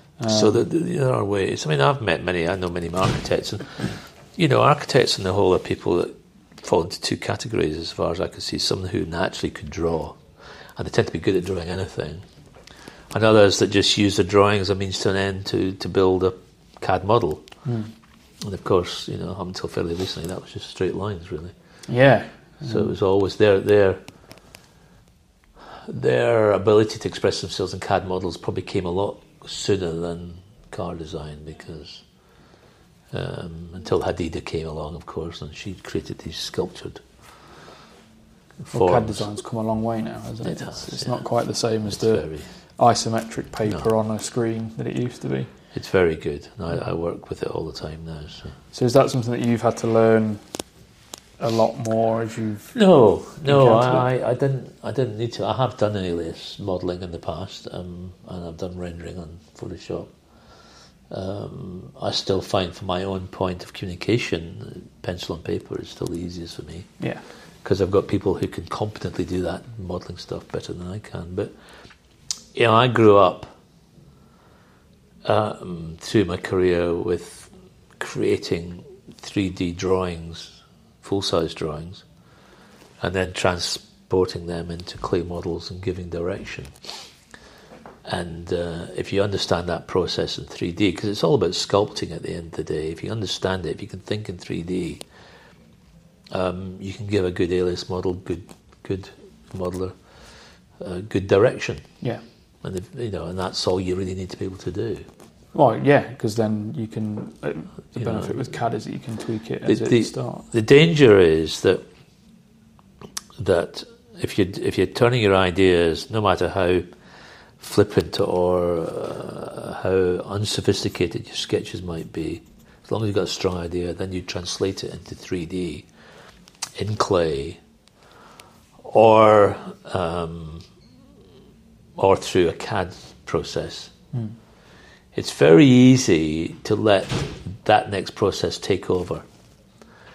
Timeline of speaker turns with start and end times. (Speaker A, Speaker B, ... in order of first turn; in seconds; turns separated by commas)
Speaker A: 0.2-0.7, Speaker B: 0.3-10.2, Speaker B: 10.8-12.2, Speaker B: 13.1-17.4, Speaker A: 17.6-17.9, Speaker B: 18.4-21.5, Speaker A: 21.9-22.9, Speaker B: 22.6-24.0, Speaker B: 25.7-32.0, Speaker B: 33.1-37.0, Speaker B: 38.6-39.3, Speaker A: 38.7-45.5, Speaker B: 40.4-41.2, Speaker B: 41.9-42.5, Speaker B: 45.7-48.5, Speaker A: 48.7-50.4, Speaker A: 51.4-52.8, Speaker B: 52.7-60.1, Speaker A: 53.4-54.0, Speaker B: 61.1-66.9, Speaker B: 67.6-71.5, Speaker B: 72.5-73.5, Speaker B: 75.2-82.0, Speaker B: 83.0-86.9, Speaker B: 88.0-95.0, Speaker B: 96.3-100.0, Speaker B: 100.8-101.9, Speaker B: 102.6-105.0, Speaker A: 105.5-110.5, Speaker B: 107.9-108.5, Speaker B: 109.7-111.8, Speaker B: 113.4-116.9, Speaker B: 117.6-125.9, Speaker B: 126.8-127.6, Speaker B: 128.8-130.7, Speaker B: 132.0-133.9, Speaker B: 135.1-139.2